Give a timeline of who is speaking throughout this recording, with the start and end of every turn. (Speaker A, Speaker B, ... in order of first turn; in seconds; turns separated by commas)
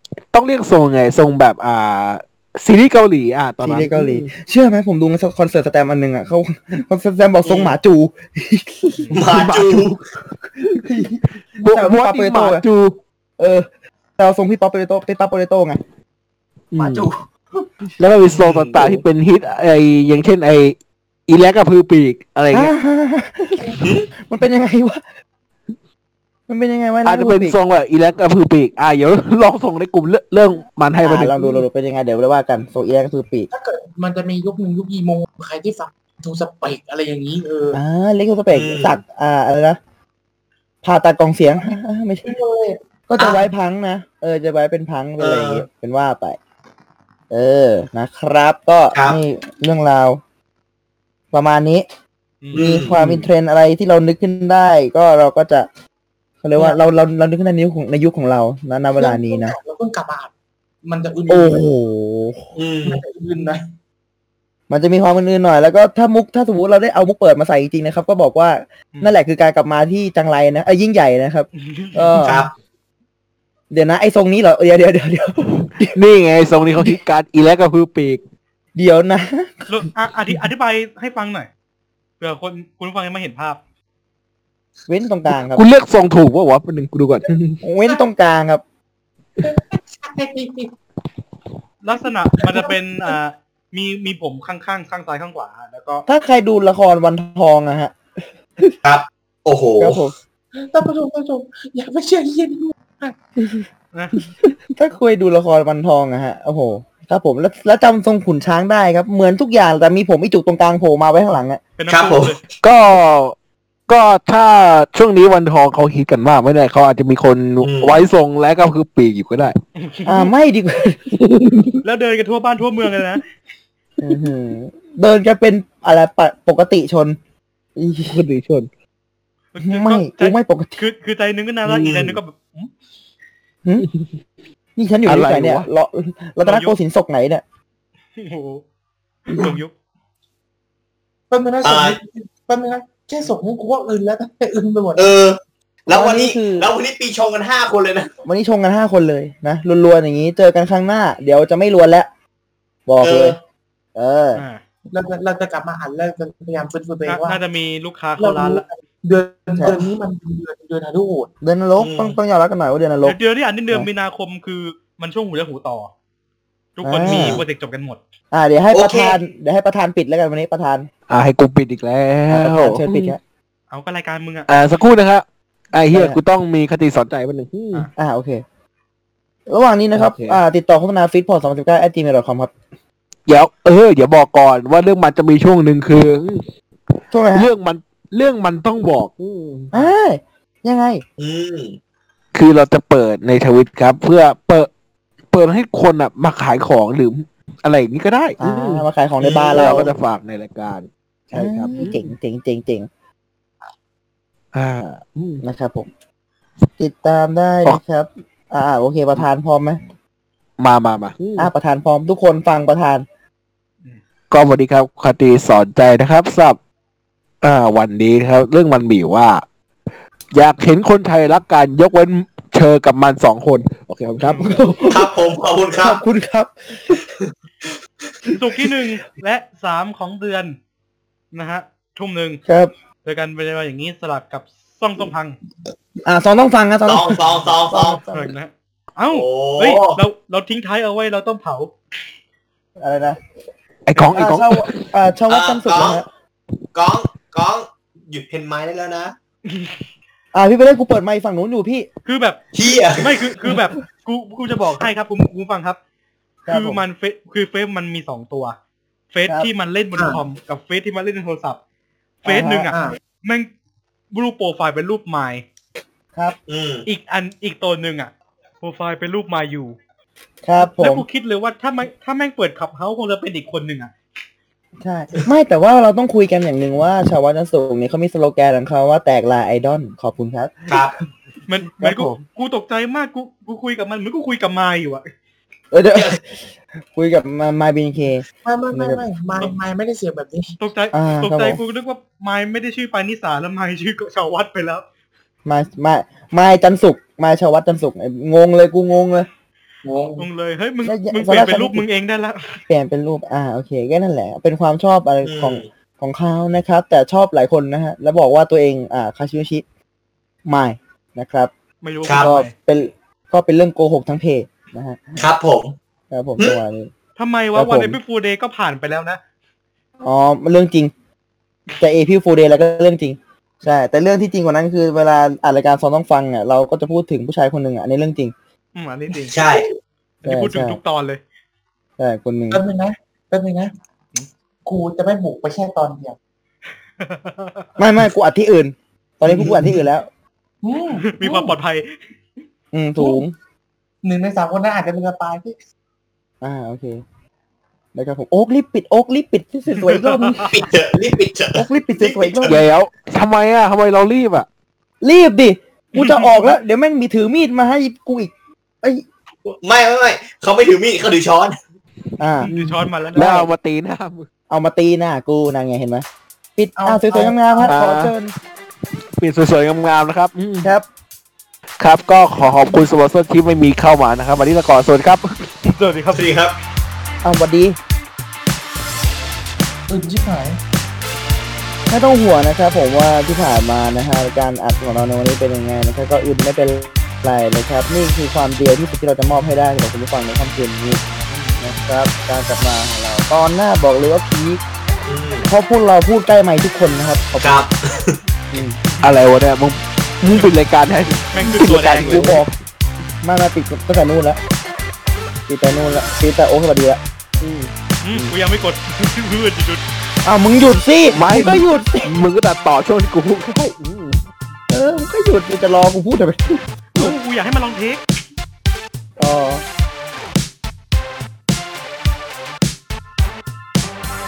Speaker A: 0.3-4.3, Speaker B: 3.6-9.1, Speaker C: 7.5-7.8, Speaker C: 9.1-10.0, Speaker A: 9.3-10.0, Speaker B: 10.7-12.6, Speaker A: 11.6-13.0, Speaker B: 13.4-13.7, Speaker B: 14.2-15.8, Speaker A: 16.7-17.1, Speaker A: 18.0-20.8, Speaker C: 18.3-19.0, Speaker A: 21.3-22.7, Speaker B: 22.5-25.0, Speaker C: 23.8-24.1, Speaker B: 26.5-27.6, Speaker A: 27.0-31.6, Speaker B: 31.0-33.5, Speaker D: 33.5-37.8, Speaker B: 37.7-39.8, Speaker C: 38.5-39.0, Speaker B: 40.8-42.4, Speaker D: 42.2-42.8, Speaker B: 43.1-46.4, Speaker C: 45.2-45.6, Speaker B: 47.3-50.2, Speaker B: 51.3-51.9, Speaker E: 52.4-52.7, Speaker C: 52.5-53.0, Speaker B: 52.5-55.7, Speaker B: 56.4-59.5, Speaker D: 59.0-60.3, Speaker D: 60.8-61.7, Speaker B: 61.3-62.5, Speaker C: 62.5-63.0, Speaker D: 62.8-63.6, Speaker B: 64.7-72.5, Speaker E: 71.6-72.1, Speaker C: 72.2-72.5, Speaker B: 73.7-76.0, Speaker A: 75.8-78.2, Speaker B: 78.8-79.7, Speaker E: 79.7-81.5, Speaker E: 82.2-83.6, Speaker B: 84.9-85.6, Speaker A: 85.3-87.6, Speaker B: 87.6-88.6, Speaker D: 89.4-90.7, Speaker E: 91.8-96.0, Speaker D: 92.4-92.7, Speaker B: 96.1-97.9, Speaker C: 98.8-100.0, Speaker B: 99.8-100.1, Speaker D: 100.5-103.1, Speaker E: 103.9-104.2, Speaker B: 104.2-111.6, Speaker E: 111.3-112.4, Speaker C: 111.9-112.4, Speaker A: 112.6-113.3, Speaker A: 113.9-119.6, Speaker C: 117.6-118.0, Speaker E: 119.8-120.3, Speaker B: 120.0-121.1, Speaker A: 121.1-121.8, Speaker E: 121.8-123.2, Speaker B: 124.0-127.2, Speaker B: 127.8-128.3, Speaker A: 128.1-128.7, Speaker E: 129.5-132.7, Speaker B: 129.6-130.8, Speaker C: 131.6-132.2, Speaker A: 133.8-134.1, Speaker B: 134.8-137.4, Speaker A: 135.1-135.7, Speaker E: 136.4-136.8, Speaker E: 138.2-138.6, Speaker E: 139.3-139.7, Speaker D: 141.3-145.1, Speaker C: 141.6-142.0, Speaker C: 145.0-148.1, Speaker B: 145.9-146.7, Speaker B: 148.2-152.1, Speaker B: 152.9-153.3, Speaker C: 153.0-153.4, Speaker B: 153.9-154.4, Speaker E: 154.3-154.6, Speaker D: 154.9-157.4, Speaker E: 157.1-158.7, Speaker D: 158.2-161.3, Speaker B: 159.6-159.9, Speaker B: 161.4-163.2, Speaker C: 161.8-162.2, Speaker E: 163.0-165.9, Speaker E: 166.8-168.0, Speaker B: 166.8-167.4, Speaker C: 167.0-167.4, Speaker B: 168.3-170.9, Speaker C: 168.7-169.2, Speaker A: 171.1-173.2, Speaker B: 172.3-173.2, Speaker E: 173.7-174.5, Speaker A: 174.5-177.9, Speaker B: 175.9-176.2, Speaker B: 177.9-178.4, Speaker B: 179.5-182.5, Speaker A: 179.9-180.4, Speaker A: 183.3-186.5, Speaker B: 187.1-187.5, Speaker A: 187.3-189.8, Speaker B: 189.7-191.0, Speaker C: 191.2-191.8, Speaker A: 192.3-194.7, Speaker A: 195.3-198.8, Speaker B: 198.4-199.9, Speaker C: 199.2-199.8, Speaker A: 199.5-202.1, Speaker B: 201.3-202.9, Speaker A: 204.5-205.4, Speaker B: 205.4-205.9, Speaker B: 206.8-209.8, Speaker A: 210.6-211.5, Speaker B: 211.4-213.0, Speaker A: 214.3-216.6, Speaker A: 217.4-219.4, Speaker A: 220.3-224.9, Speaker B: 224.2-225.2, Speaker E: 224.2-224.6, Speaker C: 224.9-226.0, Speaker B: 225.8-227.1, Speaker E: 228.3-230.6, Speaker E: 231.3-232.4, Speaker B: 232.4-232.7, Speaker E: 233.0-235.4, Speaker B: 236.0-238.3, Speaker C: 236.8-238.0, Speaker E: 238.1-241.7, Speaker C: 239.1-240.0, Speaker B: 242.8-243.2, Speaker A: 243.9-244.9, Speaker B: 244.1-246.1, Speaker C: 245.3-246.0, Speaker C: 246.7-249.1, Speaker E: 249.5-249.8, Speaker B: 250.3-251.9, Speaker E: 252.0-255.8, Speaker C: 252.5-253.3, Speaker B: 256.4-256.8, Speaker E: 256.5-258.6, Speaker E: 259.1-261.6, Speaker B: 262.2-262.7, Speaker E: 262.2-263.5, Speaker E: 264.1-265.4, Speaker C: 266.5-266.8, Speaker E: 266.9-268.1, Speaker E: 268.6-269.8, Speaker B: 270.4-271.1, Speaker E: 270.6-273.9, Speaker B: 274.8-280.9, Speaker C: 280.7-280.9, Speaker E: 281.5-285.0, Speaker B: 281.8-282.2, Speaker B: 285.7-289.0, Speaker D: 288.4-290.6, Speaker E: 290.6-294.8, Speaker B: 290.9-291.6, Speaker B: 295.4-299.3, Speaker D: 299.8-300.3, Speaker E: 300.2-302.6, Speaker B: 300.8-301.8, Speaker B: 302.7-309.6, Speaker C: 305.2-305.7, Speaker B: 310.4-311.5, Speaker E: 311.8-312.5, Speaker C: 312.1-312.3, Speaker B: 312.1-315.2, Speaker C: 315.2-315.7, Speaker B: 316.1-316.9, Speaker E: 317.2-319.2, Speaker B: 317.5-318.0, Speaker B: 320.0-320.9, Speaker B: 321.8-328.3, Speaker E: 328.7-329.4, Speaker C: 329.3-329.6, Speaker E: 330.2-331.2, Speaker B: 330.2-330.8, Speaker B: 332.0-332.6, Speaker D: 332.5-333.7, Speaker D: 334.6-336.2, Speaker E: 337.0-337.7, Speaker B: 337.8-340.1, Speaker D: 339.2-339.9, Speaker D: 340.6-341.5, Speaker E: 341.0-342.0, Speaker B: 342.7-343.3, Speaker D: 343.0-343.2, Speaker D: 344.0-345.6, Speaker B: 346.4-347.0, Speaker B: 347.9-350.6, Speaker E: 349.8-350.5, Speaker C: 350.4-352.6, Speaker B: 351.5-352.6, Speaker A: 352.4-354.4, Speaker B: 355.0-359.0, Speaker E: 355.9-356.5, Speaker C: 359.4-361.6, Speaker B: 362.2-362.5, Speaker E: 362.4-363.5, Speaker A: 363.1-364.3, Speaker B: 363.1-363.4, Speaker B: 364.5-366.0, Speaker B: 366.6-368.3, Speaker D: 366.8-367.8, Speaker A: 367.7-368.1, Speaker A: 369.2-370.7, Speaker A: 371.8-375.5, Speaker E: 375.6-376.3, Speaker C: 376.1-376.6, Speaker B: 377.2-377.8, Speaker D: 379.9-380.6, Speaker B: 381.9-391.0, Speaker E: 391.3-391.6, Speaker B: 391.6-394.6, Speaker C: 395.1-395.5, Speaker B: 395.4-397.7, Speaker C: 397.4-398.2, Speaker B: 398.5-398.8, Speaker A: 399.0-402.4, Speaker E: 401.3-402.4, Speaker B: 401.5-402.5, Speaker B: 403.2-404.4, Speaker B: 405.5-407.0, Speaker A: 407.4-407.7, Speaker E: 408.0-409.8, Speaker B: 410.2-412.2, Speaker A: 411.1-414.2, Speaker B: 414.7-417.1, Speaker E: 416.9-418.0, Speaker B: 419.2-419.6